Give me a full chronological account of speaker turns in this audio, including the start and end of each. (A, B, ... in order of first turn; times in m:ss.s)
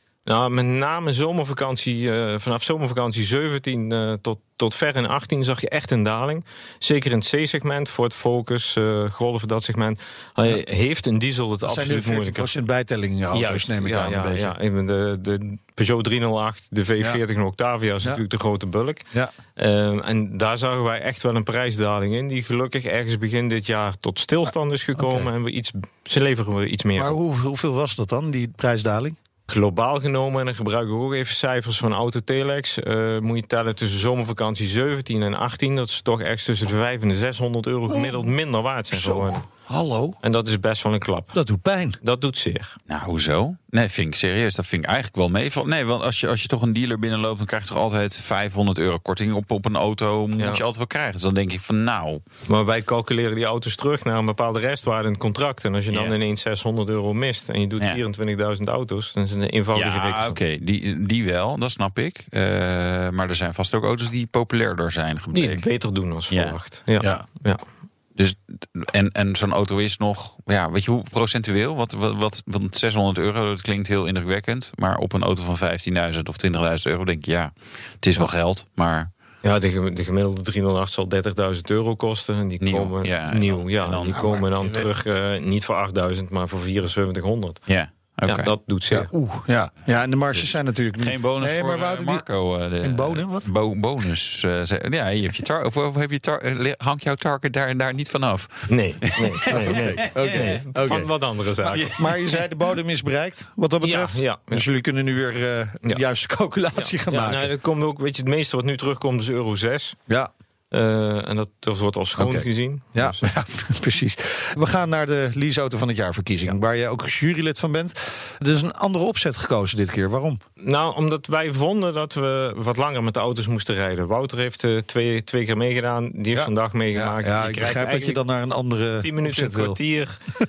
0:00.2-0:12.6 A
0:11.6-0:14.5 B
0:13.3-0:19.0 A
0:19.6-0:27.2 A
0:25.0-0:25.3 B
0:27.0-0:29.2 B
0:29.5-0:39.4 A
0:37.9-0:38.3 B
0:38.9-0:40.2 B
0:40.2-0:41.4 A
0:41.3-0:42.0 B
0:42.0-0:42.8 A
0:42.9-0:52.2 C
0:50.4-0:50.6 A
0:52.5-1:00.4 A
0:55.9-0:56.2 C
0:59.7-1:05.7 C
1:05.3-1:07.6 A
1:06.3-1:06.6 C
1:07.0-1:07.2 B
1:08.2-1:19.1 C
1:19.4-1:27.6 A
1:22.6-1:24.4 C
1:24.1-1:24.9 B
1:27.7-1:28.6 C
1:28.3-1:29.1 A
1:28.9-1:32.2 B
1:30.4-1:40.6 C
1:32.8-1:33.5 B
1:38.7-1:41.9 A
1:39.5-1:47.5 B
1:41.7-1:42.3 C
1:43.8-1:44.6 A
1:46.8-1:50.0 A
1:50.7-1:53.3 A
1:52.2-2:00.4 B
2:00.6-2:08.2 A
2:06.3-2:09.8 B
2:09.0-2:10.2 A